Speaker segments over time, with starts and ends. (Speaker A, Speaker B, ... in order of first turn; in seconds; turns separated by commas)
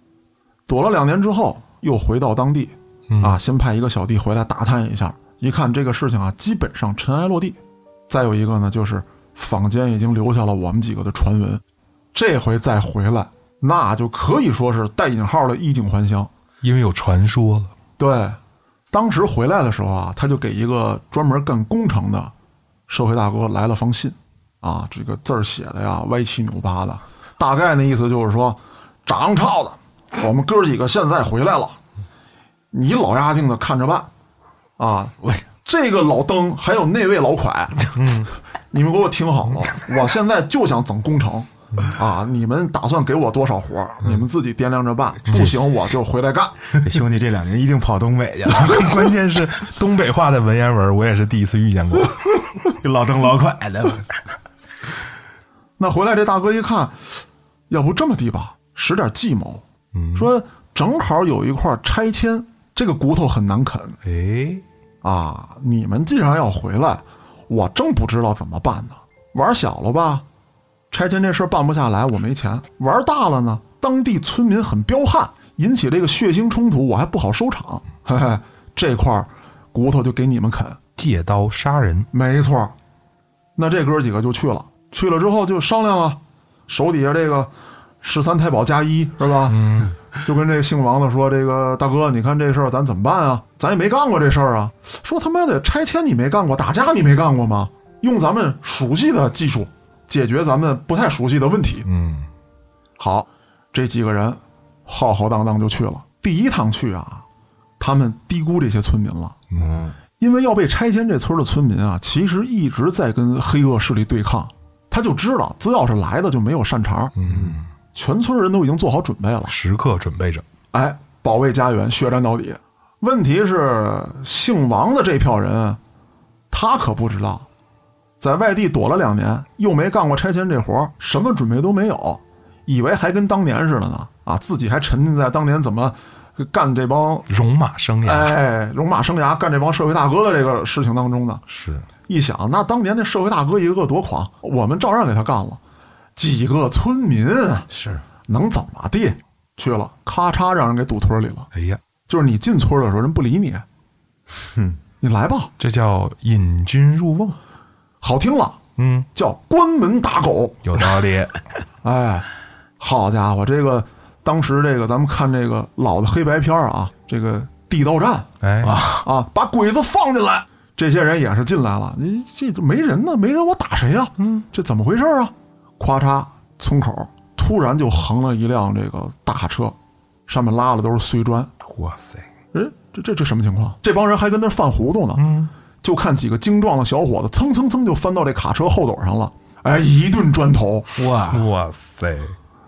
Speaker A: 0.7-7.6, Speaker B: 3.1-3.4, Speaker A: 8.1-11.6, Speaker A: 12.1-16.3, Speaker B: 16.6-17.7, Speaker A: 18.0-18.4, Speaker A: 18.9-22.3, Speaker A: 22.9-31.8, Speaker A: 32.7-34.1, Speaker A: 34.8-38.0, Speaker B: 38.0-38.3, Speaker A: 38.7-46.6, Speaker B: 45.3-45.5, Speaker C: 46.7-49.1, Speaker B: 48.5-52.4, Speaker C: 52.8-54.1, Speaker A: 55.8-59.6, Speaker B: 59.9-60.3, Speaker A: 60.2-64.0, Speaker B: 64.0-64.6, Speaker A: 65.0-70.2, Speaker A: 70.9-80.8, Speaker B: 81.0-82.1, Speaker A: 82.1-82.7, Speaker A: 83.6-87.5, Speaker A: 88.0-101.9, Speaker B: 89.5-89.9, Speaker B: 101.9-102.3, Speaker A: 103.0-107.2, Speaker A: 107.8-109.4, Speaker C: 109.6-110.0, Speaker A: 110.2-117.1, Speaker B: 117.2-117.7, Speaker C: 117.3-117.6, Speaker A: 117.9-119.6, Speaker B: 119.5-120.5, Speaker A: 120.7-125.8, Speaker A: 126.5-127.5, Speaker A: 128.2-137.3, Speaker B: 137.3-138.3, Speaker A: 138.0-141.4, Speaker B: 141.5-141.9, Speaker A: 142.1-145.6, Speaker A: 146.2-147.7, Speaker C: 147.7-148.0, Speaker A: 148.3-151.5, Speaker B: 151.5-151.8, Speaker A: 152.1-153.7, Speaker A: 155.0-155.5, Speaker B: 155.6-157.4, Speaker A: 158.0-158.6, Speaker B: 158.8-159.1, Speaker A: 159.2-160.6, Speaker B: 160.7-161.4, Speaker A: 161.8-162.3, Speaker A: 162.8-168.3, Speaker B: 168.4-168.8, Speaker C: 168.6-169.1, Speaker A: 169.0-179.8, Speaker A: 180.3-181.5, Speaker B: 181.7-182.3, Speaker A: 182.5-185.2, Speaker B: 185.2-185.5, Speaker A: 185.8-190.9, Speaker C: 191.0-191.5, Speaker B: 191.3-192.4